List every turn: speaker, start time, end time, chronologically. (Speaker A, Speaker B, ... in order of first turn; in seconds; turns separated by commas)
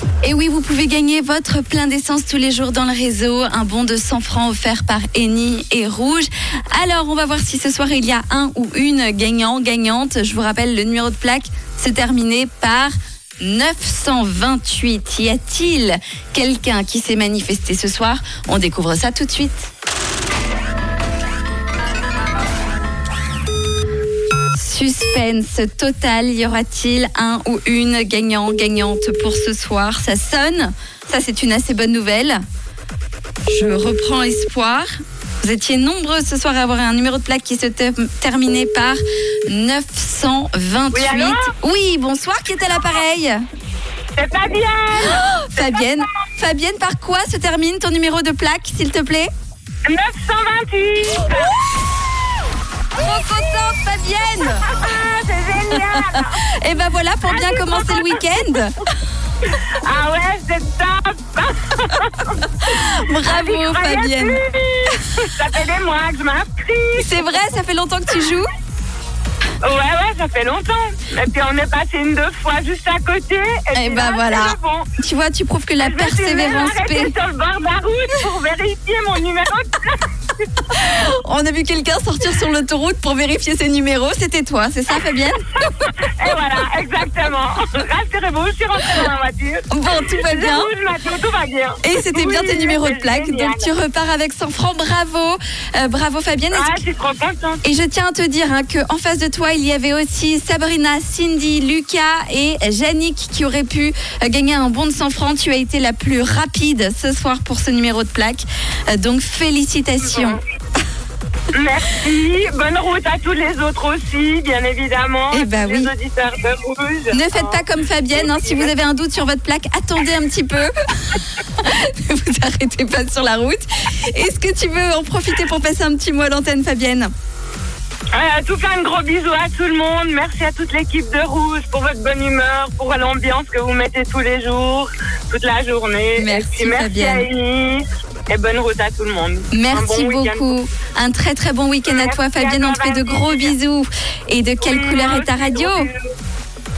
Speaker A: 0.2-19.7, Speaker A: 24.5-32.4, Speaker A: 33.5-34.9, Speaker A: 35.4-43.4, Speaker B: 40.9-41.5, Speaker B: 44.2-46.0, Speaker A: 45.0-49.3, Speaker B: 49.9-51.5, Speaker A: 53.0-54.7, Speaker B: 54.7-56.4, Speaker A: 55.9-58.9, Speaker B: 57.3-58.2, Speaker B: 59.4-67.2, Speaker A: 62.6-64.4, Speaker A: 67.0-68.5, Speaker B: 69.6-74.9, Speaker A: 73.7-77.1, Speaker B: 75.8-80.0, Speaker A: 80.7-85.4, Speaker B: 85.7-93.7, Speaker A: 89.7-90.7, Speaker A: 91.8-96.8, Speaker B: 96.5-97.6, Speaker A: 97.6-110.4, Speaker B: 110.0-110.4, Speaker B: 111.5-118.7, Speaker A: 115.3-115.9, Speaker A: 117.1-127.1, Speaker B: 128.1-140.5, Speaker A: 136.2-137.3, Speaker A: 139.5-145.9, Speaker B: 141.8-143.6, Speaker B: 144.6-146.1